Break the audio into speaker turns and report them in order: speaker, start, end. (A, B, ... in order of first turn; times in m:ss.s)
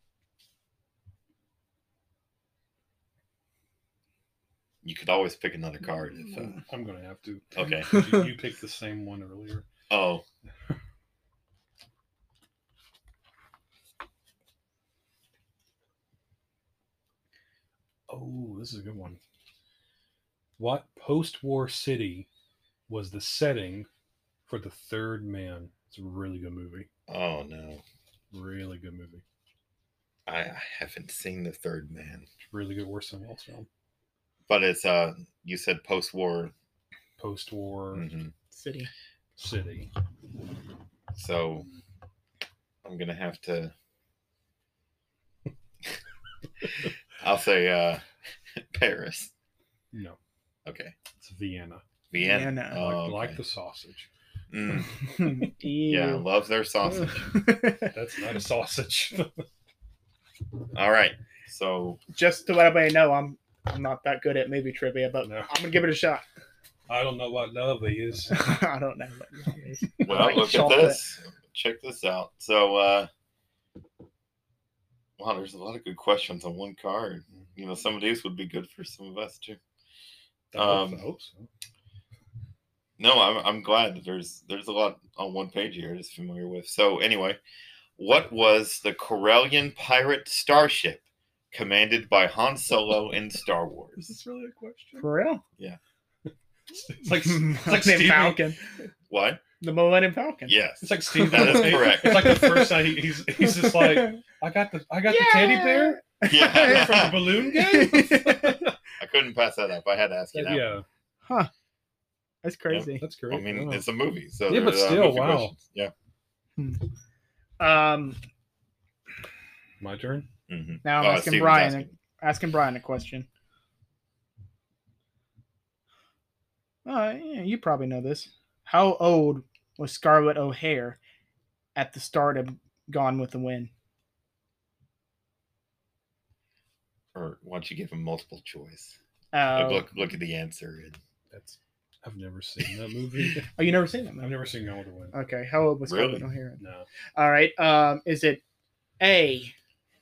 0:04.8-0:06.6 A
0:06.3-0:09.6 B
0:07.5-0:07.9 A
0:09.9-0:10.2 A
0:18.1-0:19.2 B
0:20.6-0:22.3 B
0:22.9-0:23.9 B
0:24.5-0:26.9 B
0:27.1-0:27.8 A
0:28.3-0:29.2 B
0:30.3-0:32.2 A
0:32.5-0:33.7 B
0:34.5-0:36.5 A
0:37.2-0:38.1 B
0:37.9-0:38.3 A
0:38.5-0:38.9 C
0:39.4-0:39.9 B
0:41.1-0:41.7 A
0:42.8-0:43.7 A
0:46.7-0:48.0 A
0:48.6-0:49.3 A
0:49.9-0:50.2 B
0:50.6-0:50.9 A
0:51.2-0:51.8 B
0:52.1-0:53.4 A
0:52.2-0:52.8 C
0:52.7-0:54.1 B
0:54.5-0:54.9 A
0:55.1-0:56.2 C
0:55.9-0:57.3 A
0:57.2-0:57.9 C
0:57.8-0:59.4 B
1:00.7-1:02.0 A
1:02.1-1:06.2 C
1:05.2-1:05.5 B
1:06.9-1:08.4 B
1:08.3-1:11.0 C
1:10.0-1:13.1 A
1:10.1-1:10.4 B
1:15.2-1:19.6 A
1:20.5-1:21.5 B
1:20.5-1:21.0 A
1:23.0-1:27.4 A
1:28.0-1:34.0 A
1:34.0-1:35.1 B
1:35.0-1:35.4 C
1:36.7-1:38.5 B
1:37.0-1:38.6 C
1:39.1-1:39.4 A
1:39.6-1:40.5 C
1:40.5-1:42.5 A
1:40.8-1:48.7 B
1:41.1-1:44.2 C
1:45.1-1:48.6 C
1:46.2-1:47.2 A
1:49.0-1:50.7 A
1:50.3-1:50.8 B
1:51.2-1:51.5 C
1:52.4-1:53.0 C
1:52.7-1:55.9 A
1:53.0-1:53.8 B
1:54.5-1:55.5 B
1:56.6-1:56.9 C
1:57.6-1:58.2 C
1:59.8-2:00.3 B
2:00.5-2:01.9 A
2:00.8-2:03.3 C
2:06.8-2:11.0 C
2:11.8-2:13.7 C
2:17.1-2:19.0 A
2:19.3-2:19.9 C
2:19.5-2:21.0 A
2:21.3-2:23.6 B
2:23.5-2:24.3 C
2:24.2-2:25.1 B
2:25.1-2:26.6 C
2:25.8-2:26.2 A
2:26.6-2:26.9 B
2:27.2-2:28.4 C
2:29.0-2:29.5 C